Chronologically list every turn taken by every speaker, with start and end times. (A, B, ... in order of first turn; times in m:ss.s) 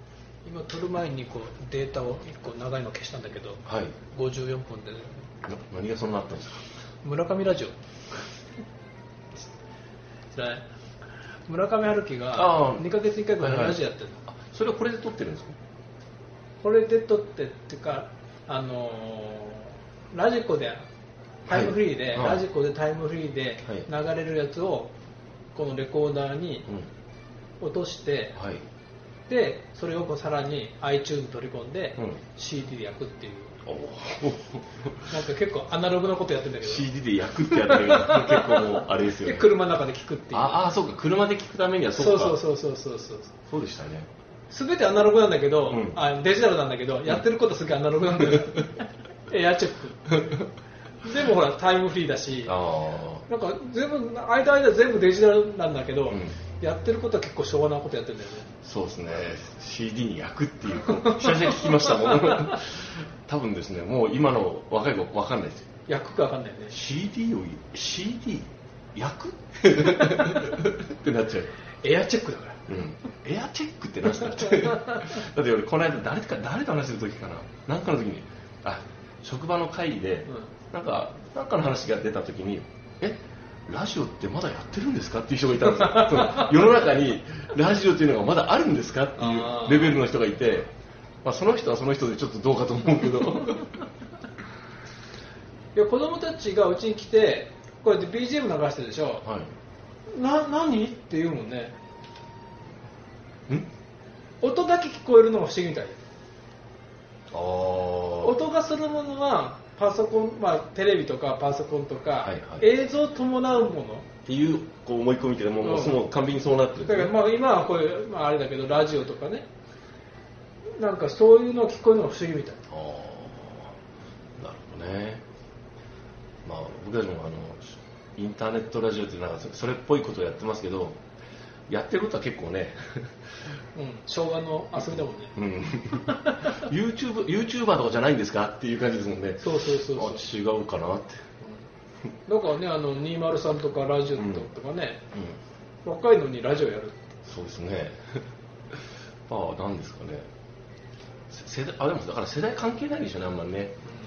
0:00.4-0:05.2 A
0:03.6-0:03.9 B
0:05.4-0:06.6 B
0:07.0-0:07.7 A
0:10.3-0:10.6 A
0:11.5-0:14.2 A
0:12.3-0:15.6 B
0:16.6-0:20.8 A
0:21.4-0:24.9 A
0:21.5-0:22.4 B
0:25.5-0:26.7 A
0:27.6-0:28.4 A
0:28.4-0:28.6 B
0:29.3-0:33.6 A
0:33.6-0:35.2 B
0:35.1-0:40.6 A
0:36.6-0:39.5 B
0:40.3-0:42.4 B
0:41.9-0:43.3 A
0:43.5-0:44.1 B
0:44.5-0:50.2 A
0:45.7-0:46.0 B
0:51.0-0:52.6 A
0:52.4-0:53.2 B
0:53.2-0:58.5 A
0:56.1-0:56.4 B
0:58.6-1:05.7 B
1:00.9-1:02.5 A
1:05.9-1:06.8 A
1:06.7-1:11.5 B
1:10.2-1:10.4 A
1:11.8-1:12.6 A
1:12.7-1:30.7 B
1:14.4-1:15.0 A
1:29.2-1:30.0 A
1:31.2-1:33.8 B
1:35.7-1:39.2 A
1:39.2-1:39.5 B
1:40.1-1:41.8 A
1:44.4-1:46.0 A
1:47.3-1:48.4 B
1:48.2-1:54.1 A
1:52.2-1:52.6 B
1:54.2-1:57.1 B
1:55.6-1:56.0 A
1:56.8-1:59.5 A
2:00.8-2:02.6 A
2:02.7-2:03.8 B
2:04.4-2:05.2 B
2:06.4-2:11.0 B
2:11.7-2:13.2 B
2:13.7-2:15.4 A
2:15.4-2:21.2 B
2:16.0-2:16.6 A
2:19.4-2:20.2 A
2:22.3-2:25.0 A
2:24.2-2:24.4 B
2:25.8-2:27.0 A
2:27.2-2:30.3 B
2:31.3-2:33.8 B